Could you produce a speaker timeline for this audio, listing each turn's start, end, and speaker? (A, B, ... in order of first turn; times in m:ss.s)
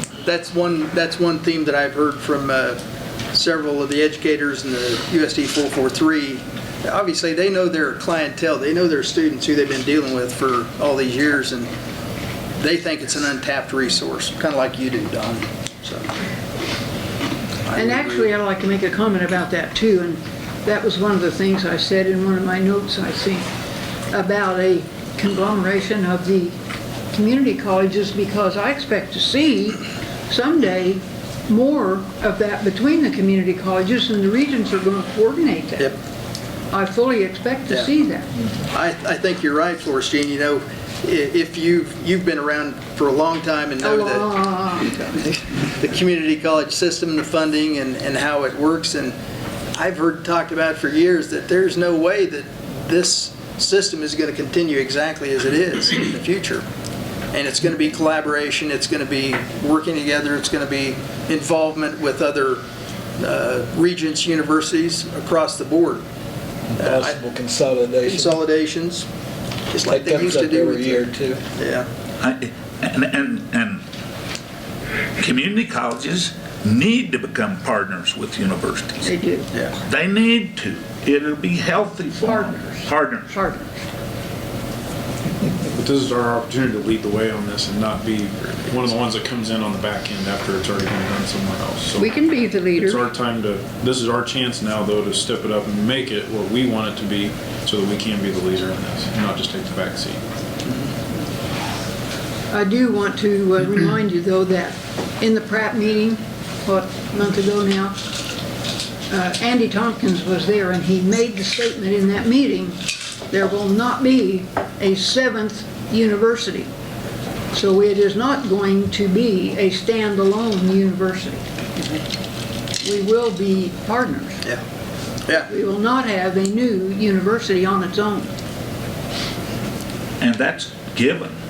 0:00.2-0:02.8 A
0:03.3-0:11.7 A
0:12.6-0:16.1 A
0:17.7-0:18.3 A
0:17.7-0:23.5 B
0:24.1-0:26.5 B
0:27.1-0:36.0 B
0:36.7-0:38.3 B
0:38.7-0:44.4 A
0:43.8-0:45.2 B
0:45.2-0:49.2 A
0:49.8-0:56.6 A
0:57.3-1:02.6 A
1:03.2-1:06.0 A
1:06.8-1:08.4 C
1:06.8-1:07.2 A
1:08.0-1:09.0 A
1:09.7-1:11.0 A
1:09.8-1:11.4 C
1:11.6-1:11.9 A
1:12.2-1:13.8 D
1:15.2-1:19.1 D
1:19.0-1:19.5 B
1:19.8-1:23.3 D
1:22.2-1:23.8 B
1:25.7-1:40.2 E
1:32.0-1:33.0 B
1:42.5-1:48.0 B
1:49.1-1:56.7 B
1:57.5-2:02.0 B
2:02.8-2:04.4 B
2:05.5-2:08.3 B
2:10.2-2:11.3 D